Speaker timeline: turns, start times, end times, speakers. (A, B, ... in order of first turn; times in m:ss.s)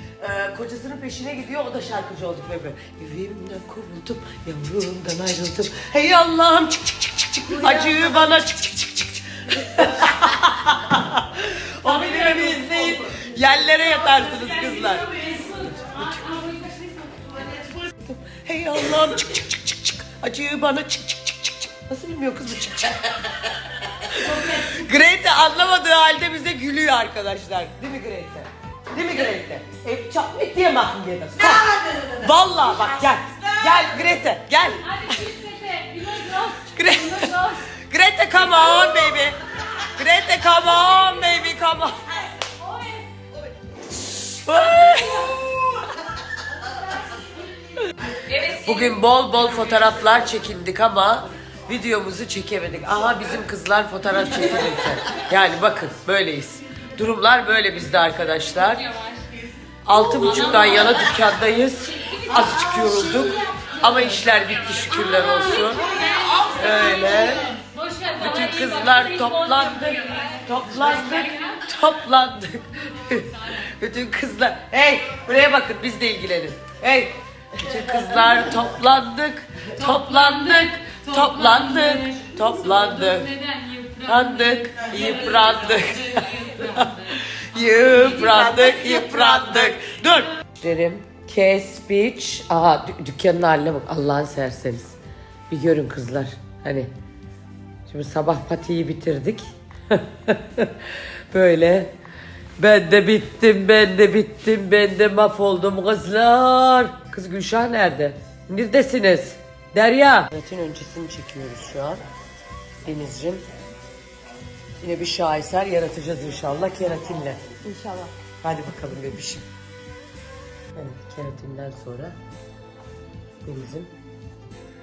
0:00.2-0:15.4 A
0:11.9-0:13.1 B
0:13.8-0:17.6 B
0:18.0-0:35.3 A
0:24.3-0:24.8 B
0:34.8-0:37.7 B
0:36.7-0:42.1 A
0:38.4-0:39.1 B
0:40.6-0:41.2 B
0:42.4-0:43.1 B
0:44.1-0:45.9 A
0:44.5-0:45.5 B
0:48.3-0:58.9 A
0:58.8-0:59.2 B
0:59.9-1:07.6 A
0:59.9-1:01.3 B
1:01.9-1:02.8 B
1:04.9-1:11.6 B
1:08.2-1:23.3 A
1:19.8-1:27.2 B
1:24.0-1:35.0 A
1:35.5-1:36.9 A
1:37.9-1:41.9 A
1:42.6-1:52.0 A
1:52.8-1:53.4 A
1:54.8-1:59.4 A
2:00.8-2:02.2 A
2:03.4-2:03.9 A